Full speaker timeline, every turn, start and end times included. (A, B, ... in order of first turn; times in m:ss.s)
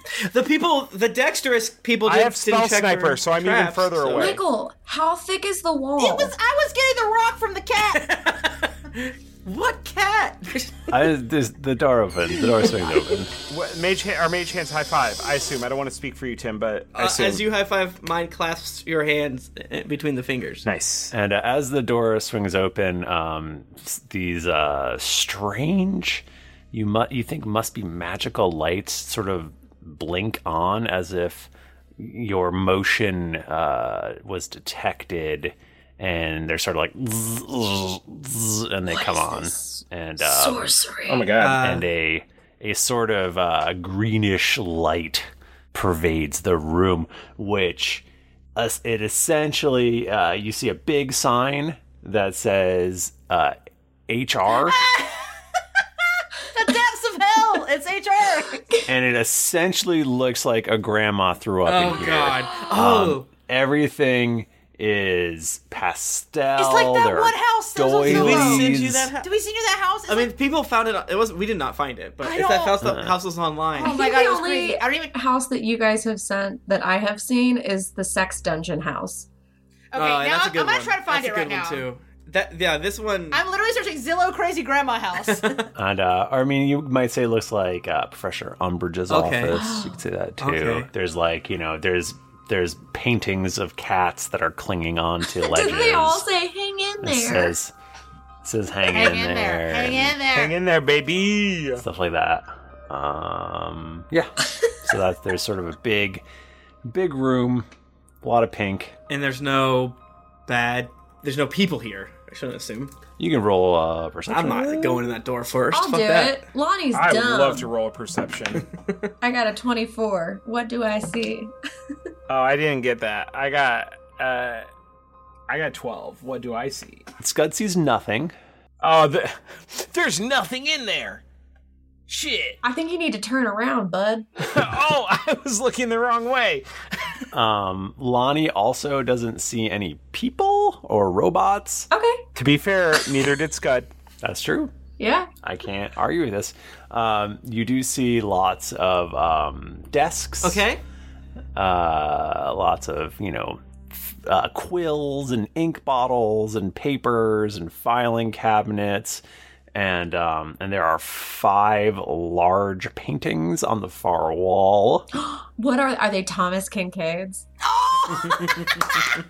0:00.2-0:04.4 A
0:02.0-0:04.4 B
0:04.1-0:06.3 C
0:06.0-0:08.5 D
0:09.5-0:10.4 D
0:10.5-0:10.9 A
0:10.9-0:13.3 E
0:13.5-0:17.5 B
0:17.0-0:20.6 A
0:20.6-0:21.1 B
0:21.1-0:40.8 E
0:38.9-0:41.3 C
0:41.1-0:41.6 B
0:41.4-0:41.9 A
0:41.5-0:48.0 E
0:48.6-0:53.6 E
0:54.1-0:54.8 E
0:54.6-0:55.3 D
0:56.5-0:58.8 D
0:58.9-1:09.1 E
1:01.6-1:03.3 A
1:06.6-1:10.3 D
1:08.0-1:09.3 A
1:10.1-1:14.0 A
1:12.2-1:12.8 D
1:12.8-1:13.2 E
1:13.7-1:15.1 D
1:13.8-1:19.3 C
1:19.9-1:21.9 D
1:19.9-1:23.4 A
1:23.3-1:25.6 D
1:25.3-1:25.7 A
1:25.8-1:36.2 E
1:29.1-1:29.6 A
1:30.4-1:30.9 A
1:35.4-1:37.6 C
1:37.0-1:37.7 E
1:38.4-1:40.2 E
1:38.9-1:40.5 D
1:40.3-1:41.8 B
1:41.8-1:46.2 E
1:46.9-1:47.7 E
1:48.2-1:49.0 E
1:49.1-1:50.0 A
1:50.5-1:52.9 A
1:53.2-1:55.0 E
1:54.3-1:56.4 A
1:55.7-1:57.7 C
1:56.9-1:58.6 B
1:59.2-2:01.5 C
2:02.3-2:04.7 B
2:05.5-2:07.0 B
2:07.2-2:08.3 E
2:08.8-2:11.2 B
2:12.1-2:12.6 B
2:12.6-2:14.3 C
2:14.4-2:16.7 B
2:17.3-2:21.9 E
2:21.9-2:22.2 C
2:22.4-2:23.9 B
2:24.2-2:24.7 E
2:25.0-2:25.3 C
2:25.4-2:30.6 E
2:30.4-2:30.8 A
2:31.6-2:39.2 E
2:39.7-2:45.1 E
2:45.1-2:47.5 C
2:47.6-2:49.1 D